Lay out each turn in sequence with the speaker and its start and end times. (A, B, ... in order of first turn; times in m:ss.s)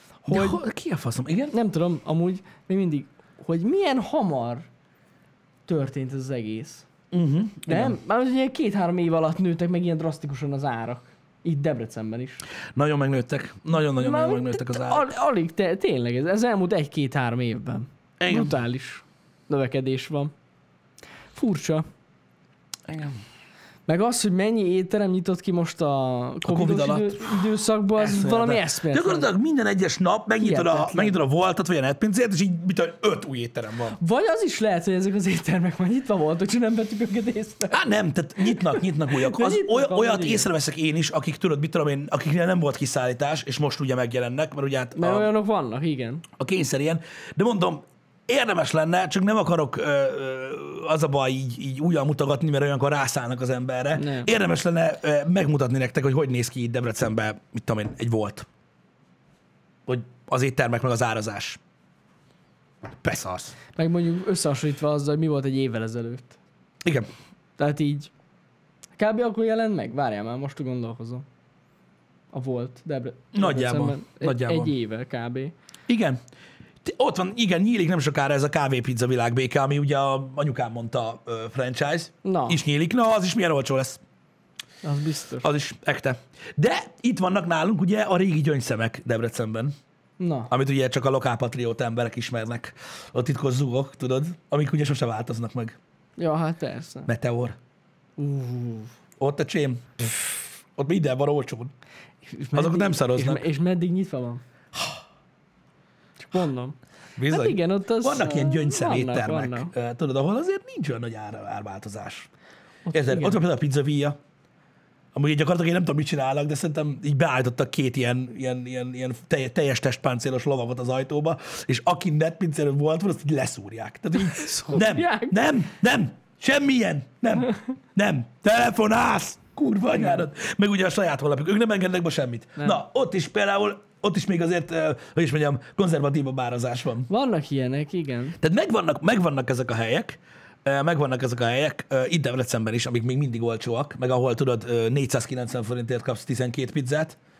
0:00.2-0:00.6 A
0:00.3-0:01.5 B
0:01.5-0:04.7 A
0:05.7-0:06.8 A
0:07.1-0:08.0 B
0:07.6-0:12.4 A
0:12.7-0:15.1 B
0:13.8-0:20.3 A
0:18.2-0:18.5 B
0:21.3-0:21.8 A
0:22.9-0:23.2 B
0:23.8-0:29.3 A
0:26.4-0:27.4 B
0:28.0-0:34.0 B
0:30.4-0:31.2 A
0:34.0-0:37.8 A
0:37.7-0:45.3 B
0:38.4-0:40.5 A
0:45.0-0:46.2 A
0:46.4-0:58.4 B
0:53.9-0:54.3 A
0:59.9-1:01.6 B
1:03.0-1:03.6 B
1:03.8-1:06.4 A
1:07.6-1:08.1 A
1:09.0-1:11.2 A
1:12.3-1:15.5 A
1:13.3-1:14.7 B
1:15.9-1:16.2 B
1:16.8-1:24.0 B
1:22.2-1:22.6 A
1:24.8-1:25.5 A
1:25.4-1:29.7 B
1:30.2-1:30.5 A
1:30.5-1:35.8 B
1:36.2-1:37.1 A
1:37.0-1:37.6 B
1:38.2-1:38.9 A
1:39.2-1:41.7 B
1:42.2-1:44.4 A
1:42.5-1:43.5 B
1:46.2-1:46.8 A
1:47.2-1:52.3 B
1:47.3-1:49.7 A
1:52.9-1:53.4 A
1:52.9-1:54.2 B
1:55.1-2:17.1 B
2:04.2-2:05.4 A
2:10.0-2:10.2 A
2:17.1-2:18.4 A
2:18.4-2:27.2 B